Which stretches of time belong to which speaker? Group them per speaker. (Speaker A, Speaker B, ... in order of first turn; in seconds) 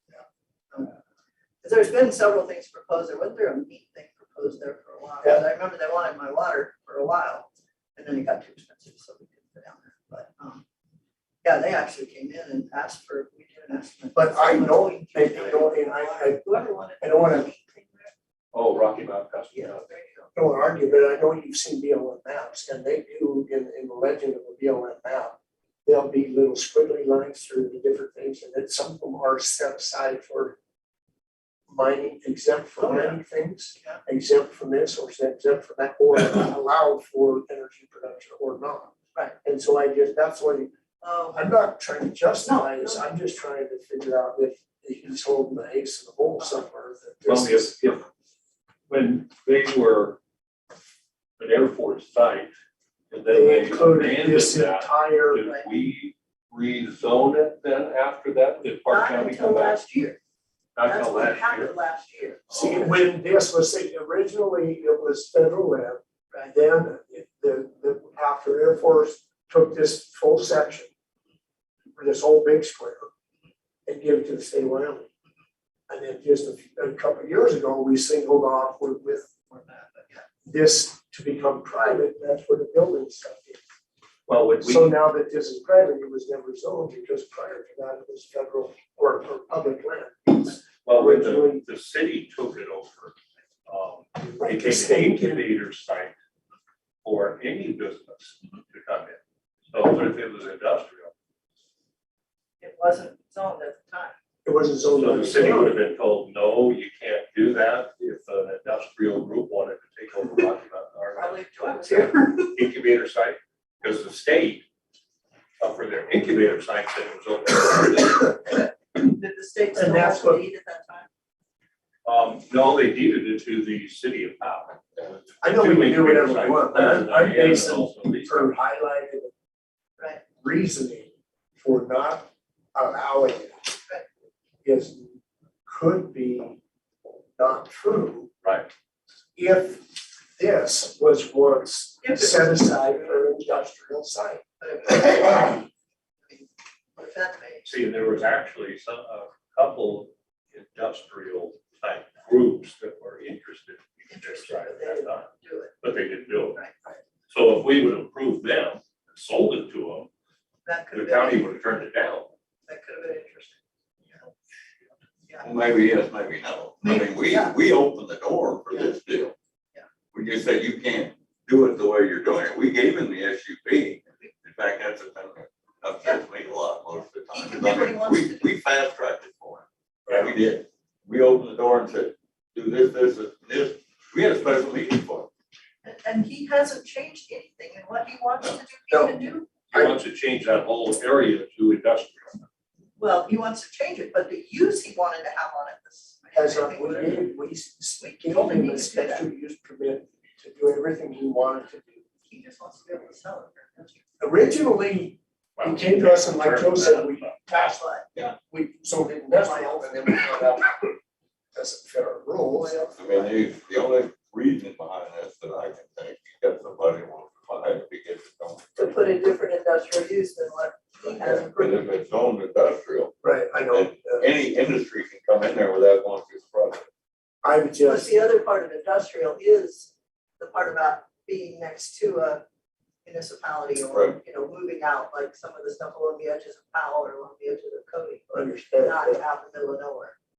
Speaker A: 1.6-10.6, 11.4-18.1, 19.5-20.3, 32.8-33.2, 41.0-41.4, 42.4-43.0, 55.4-55.7, 58.9-60.2, 60.8-62.4, 79.3-80.2, 102.6-104.2, 111.1-112.5, 118.9-121.1, 142.0-143.2, 144.6-145.7, 146.3-147.7, 154.1-155.8, 160.6-161.4, 162.7-163.6, 166.8-167.5, 177.3-178.6, 185.8-189.5, 193.0-197.3, 198.0-199.2, 202.2-204.0, 207.6-208.1, 209.3-210.1, 212.5-213.4, 218.8-221.8, 227.8-232.4, 233.0-240.1
Speaker B: 14.1-16.4, 17.0-17.5, 20.3-30.6, 31.7-38.9, 39.4-40.7, 41.3-47.8, 53.3-55.5, 62.5-70.9, 72.0-73.1, 73.8-75.1, 75.9-79.3, 80.5-83.6, 84.6-91.6, 94.4-95.4, 104.4-105.8, 119.7-120.4, 125.4-129.3, 130.4-133.7, 134.6-136.6, 137.4-138.3, 139.3-144.4, 180.1-180.3, 188.9-189.9, 196.3-202.0, 204.2-210.9, 211.5-212.8, 223.2-224.2, 227.4-228.1, 238.3-239.2
Speaker C: 18.5-19.8, 47.2-48.0, 48.9-50.2, 51.4-52.5, 53.1-59.8, 60.8-61.7, 62.5-62.9, 84.3-84.9, 90.8-93.1, 93.7-96.1, 97.0-101.1, 104.9-114.6, 115.6-118.4, 122.0-128.5, 138.4-138.7, 147.6-155.3, 155.8-156.6, 157.3-160.1, 160.9-162.3, 189.7-192.5, 205.6-207.3
Speaker D: 165.4-169.3, 170.1-185.3, 213.0-218.9, 221.2-223.1, 223.7-226.9, 233.9-234.2